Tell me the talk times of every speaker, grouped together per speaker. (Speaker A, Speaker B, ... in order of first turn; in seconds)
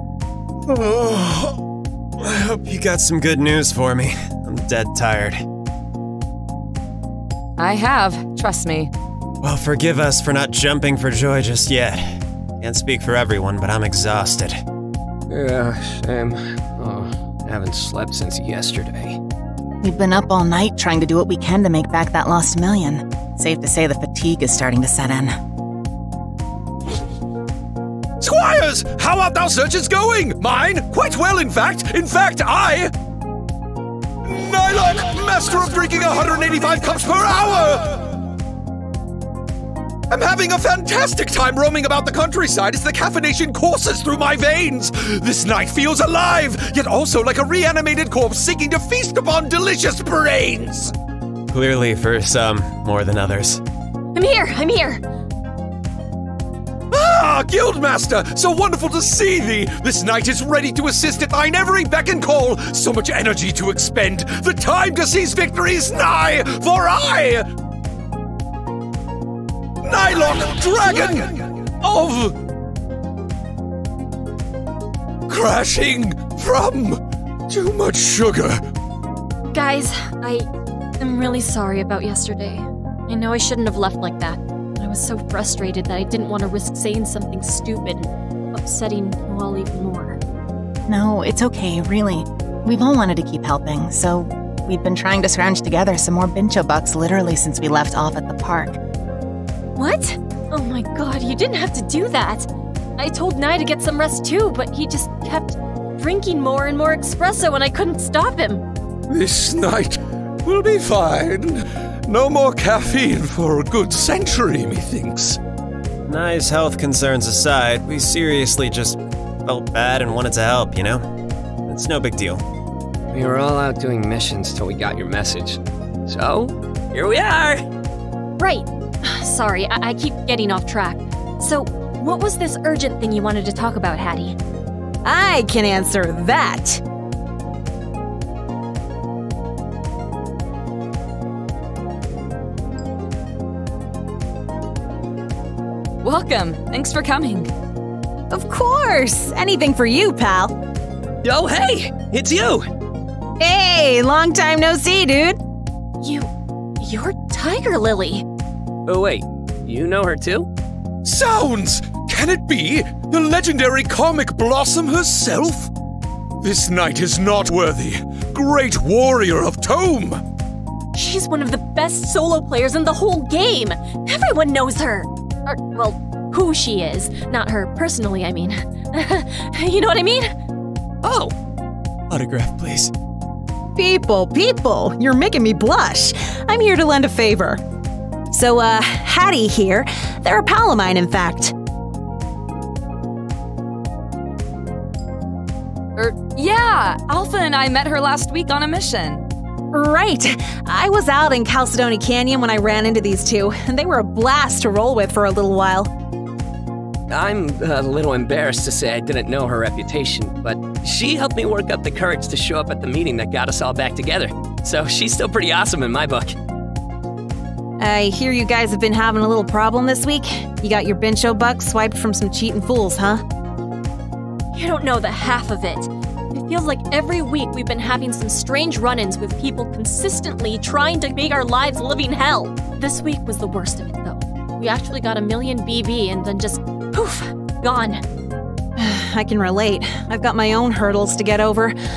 Speaker A: 0.7-1.6, 2.2-5.4, 9.4-14.6, 51.5-53.6, 116.1-121.0, 121.7-122.4, 182.1-182.9
Speaker B: 7.6-8.9, 146.0-147.5, 195.9-199.2
Speaker C: 15.3-19.2, 123.1-127.6, 151.2-152.7, 158.8-160.5, 181.0-181.3, 207.1-216.3
Speaker D: 19.8-25.3, 90.9-98.8
Speaker E: 28.2-32.9, 34.2-38.0, 40.1-50.9, 56.9-67.5, 69.8-72.3, 75.3-78.6, 109.1-115.4, 161.0-165.7, 166.4-170.2
Speaker F: 54.1-55.0, 79.5-80.5, 81.0-90.2, 99.8-108.6, 128.4-134.3, 156.0-156.3, 156.8-158.2, 170.9-180.3, 224.5-238.0
Speaker G: 135.0-136.8, 148.3-150.5, 153.4-155.4, 183.8-187.6, 188.3-191.5, 199.7-205.9, 217.8-223.2, 238.8-241.8